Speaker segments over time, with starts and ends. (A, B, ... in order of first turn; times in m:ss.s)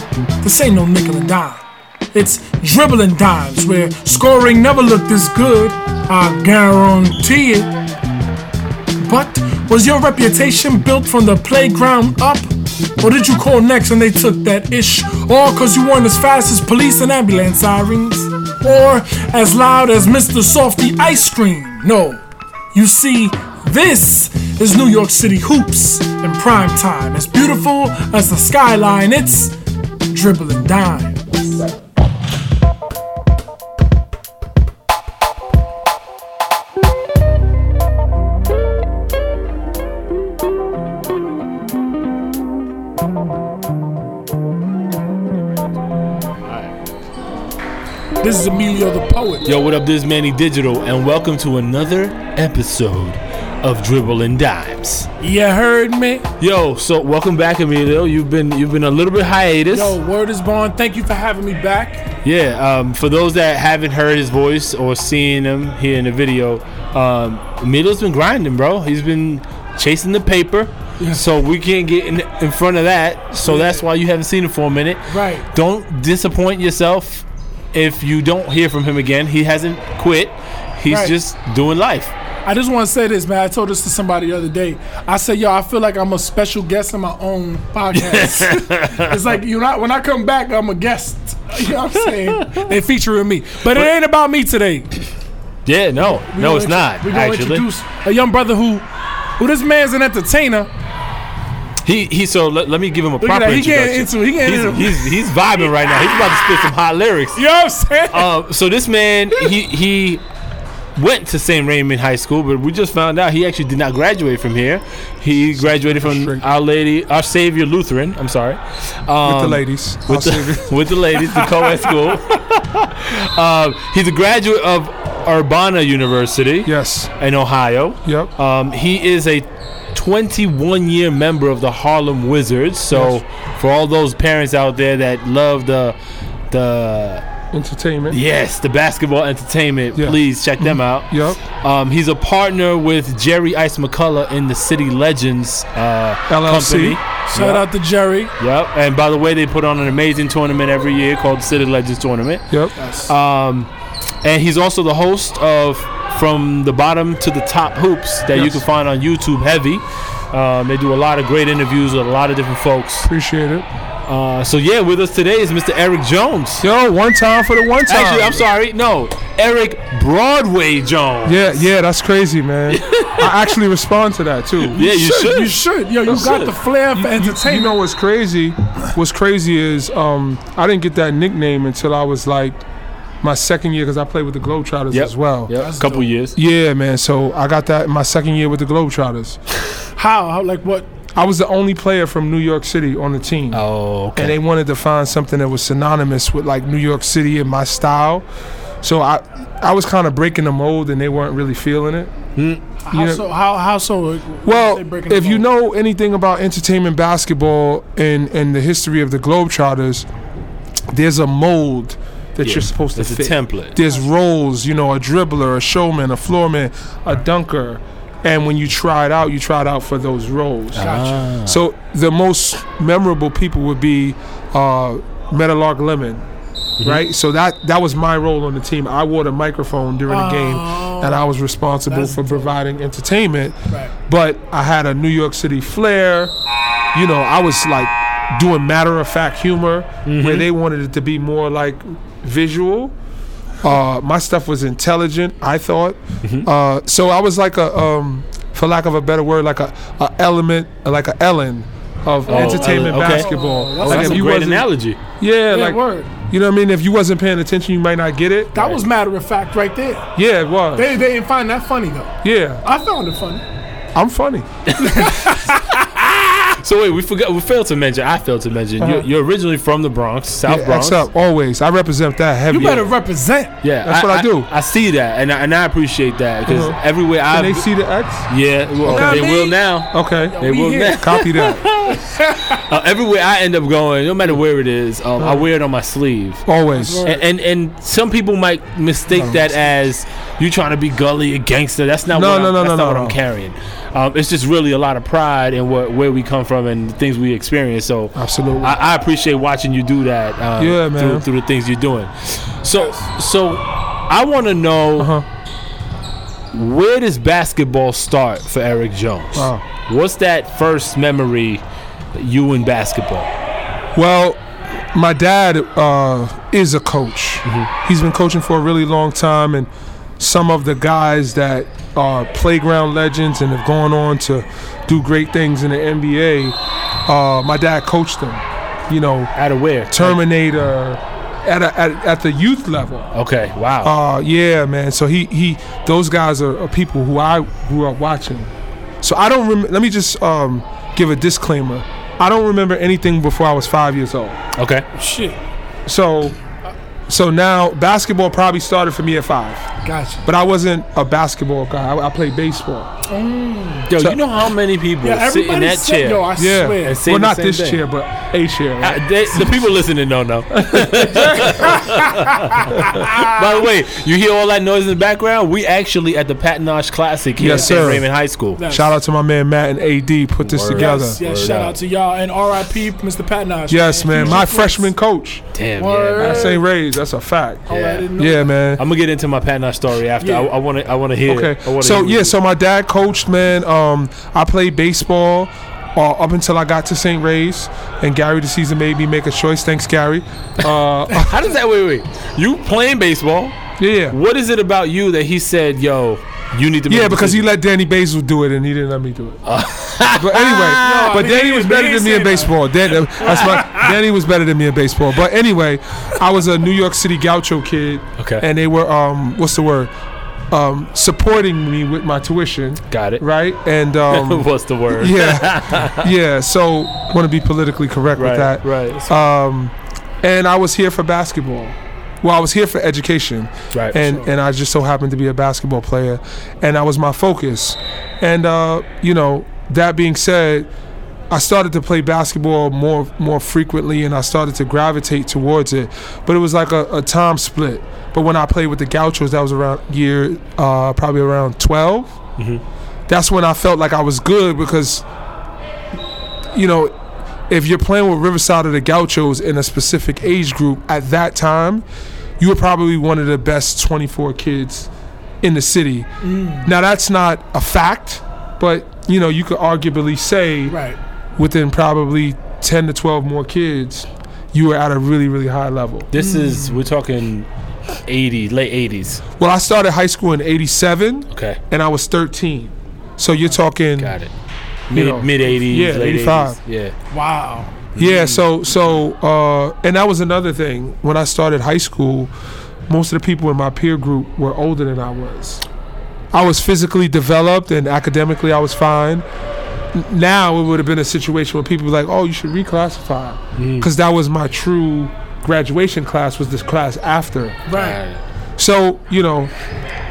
0:00.4-0:07.7 A
0:09.0-0:22.2 A
0:22.7-0:29.5 A
0:30.1-0:31.6 A
0:46.5-0:46.7 B
0:48.2-0:49.5 A
0:49.4-0:55.1 B
0:55.2-0:56.3 A
0:56.4-1:00.0 B
0:59.7-1:02.0 A
1:02.2-1:22.1 B
1:13.5-1:13.8 A
1:15.1-1:15.5 A
1:20.9-1:21.2 A
1:22.5-1:34.9 A
1:27.9-1:29.2 B
1:32.0-1:32.7 B
1:35.7-1:37.7 B
1:36.0-1:38.9 A
1:39.4-1:40.7 A
1:41.8-1:47.4 B
1:43.2-1:46.7 A
1:47.4-1:48.3 A
1:48.1-1:50.2 B
1:51.0-2:16.0 B
1:55.6-1:56.4 C
1:59.2-2:00.8 C
2:06.6-2:07.1 C
2:08.0-2:08.3 C
2:12.9-2:13.2 C
2:16.5-2:17.2 B
2:17.5-2:18.2 C
2:18.1-2:27.7 B
2:20.0-2:21.4 C
2:26.3-2:27.0 C
2:27.3-2:28.3 A
2:28.4-2:32.5 B
2:32.5-2:32.8 C
2:32.8-2:33.1 A
2:33.1-2:33.7 B
2:34.2-2:43.1 B
2:38.3-2:38.6 C
2:43.0-2:43.7 C
2:44.1-2:46.6 B
2:46.6-2:48.5 C
2:47.9-2:51.5 B
2:51.3-2:54.8 C
2:52.7-2:53.4 B
2:54.6-2:56.5 B
2:54.8-2:57.8 A
2:57.0-3:02.6 C
3:03.2-3:05.5 C
3:04.9-3:06.4 B
3:05.6-3:06.1 A
3:06.4-3:09.4 C
3:10.0-3:10.9 A
3:11.2-3:18.3 C
3:13.5-3:14.4 B
3:18.8-3:22.1 C
3:22.4-3:22.6 B
3:22.8-3:25.5 A
3:22.9-3:23.2 C
3:24.5-3:30.1 C
3:30.9-3:46.2 C
3:32.4-3:33.8 B
3:40.8-3:41.6 B
3:40.8-3:41.3 A
3:46.8-3:56.3 C
3:50.1-3:51.2 A
3:51.9-3:52.5 A
3:56.9-4:03.0 C
4:00.1-4:00.5 B
4:03.6-4:18.8 C
4:12.3-4:14.3 A
4:12.3-4:13.3 B
4:13.8-4:15.0 B
4:15.5-4:16.1 A
4:18.6-4:20.1 A
4:20.2-4:21.0 C
4:20.8-4:23.4 A
4:22.2-4:22.6 C
4:24.0-4:24.7 C
4:24.7-4:31.0 B
4:24.8-4:25.6 A
4:28.8-4:29.1 C
4:30.5-4:32.9 C
4:32.5-4:33.6 A
4:33.6-4:37.7 B
4:33.8-4:34.5 C
4:36.5-4:36.8 C
4:37.3-4:38.3 C
4:38.3-4:46.4 B
4:38.8-4:39.3 C
4:38.8-4:39.6 A
4:39.9-4:40.4 C
4:40.3-4:41.1 A
4:41.0-4:41.7 C
4:41.9-4:42.7 A
4:45.2-4:45.5 C
4:46.5-4:47.0 C
4:46.7-4:47.2 A
4:47.0-5:05.1 B
4:49.1-4:49.4 C
4:52.1-4:53.2 C
4:58.2-4:58.8 C
5:00.6-5:01.3 C
5:05.0-5:05.3 C
5:06.5-5:11.6 B
5:09.4-5:09.7 C
5:12.2-5:13.3 B
5:14.0-5:14.4 C
5:14.9-5:29.3 C
5:29.4-5:30.2 B
5:29.9-5:33.1 C
5:33.1-5:33.9 B
5:33.8-5:38.5 C
5:39.0-5:44.4 C
5:44.6-5:44.9 B
5:44.9-5:45.4 A
5:45.9-5:46.4 C
5:47.1-5:49.7 C
5:49.8-5:50.3 A
5:50.2-5:52.9 C
5:53.1-5:53.9 A
5:53.9-5:57.8 B
5:55.0-5:57.0 A
5:56.4-5:59.6 C
5:58.8-6:08.6 B
6:00.5-6:01.8 C
6:01.5-6:03.3 A
6:02.8-6:03.2 C
6:07.4-6:08.1 C
6:07.5-6:08.0 A
6:08.6-6:09.0 A
6:08.7-6:11.2 C
6:10.4-6:11.8 B
6:10.7-6:14.9 A
6:13.7-6:15.4 C
6:15.5-6:16.5 B
6:15.8-6:16.6 A
6:16.2-6:18.8 C
6:17.7-6:18.6 A
6:17.7-6:18.1 B
6:18.8-6:22.4 B
6:20.2-6:20.5 A
6:21.3-6:31.3 C
6:30.6-6:37.4 B
6:33.8-6:34.2 C
6:36.9-6:39.4 C
6:39.4-6:41.2 B
6:40.1-6:49.9 C
6:40.7-6:43.9 A
6:48.2-6:48.4 B
6:50.5-7:10.7 C
6:52.9-6:53.2 B
6:54.1-6:56.1 B
6:58.2-6:59.1 B
7:03.7-7:04.1 B
7:11.3-7:22.2 C
7:23.1-7:25.0 C
7:26.5-7:26.9 C
7:27.5-7:31.8 C
7:32.4-7:34.9 C
7:35.4-7:36.1 C
7:36.2-7:36.7 A
7:36.6-7:40.8 C
7:40.7-7:41.0 A
7:41.4-7:46.1 C
7:46.1-7:47.5 B
7:46.2-7:46.9 A
7:48.1-7:49.2 B
7:49.4-7:54.2 C
7:51.3-7:51.6 B
7:54.0-7:54.3 B
7:54.9-7:57.0 B
7:54.9-7:56.6 C
7:57.1-7:57.8 A
7:58.0-7:58.5 B
7:58.0-8:02.3 C
8:02.9-8:05.6 C
8:06.3-8:09.2 C
8:09.9-8:17.6 C
8:13.6-8:13.9 B
8:17.7-8:18.0 A
8:17.7-8:18.2 B
8:18.6-8:19.5 C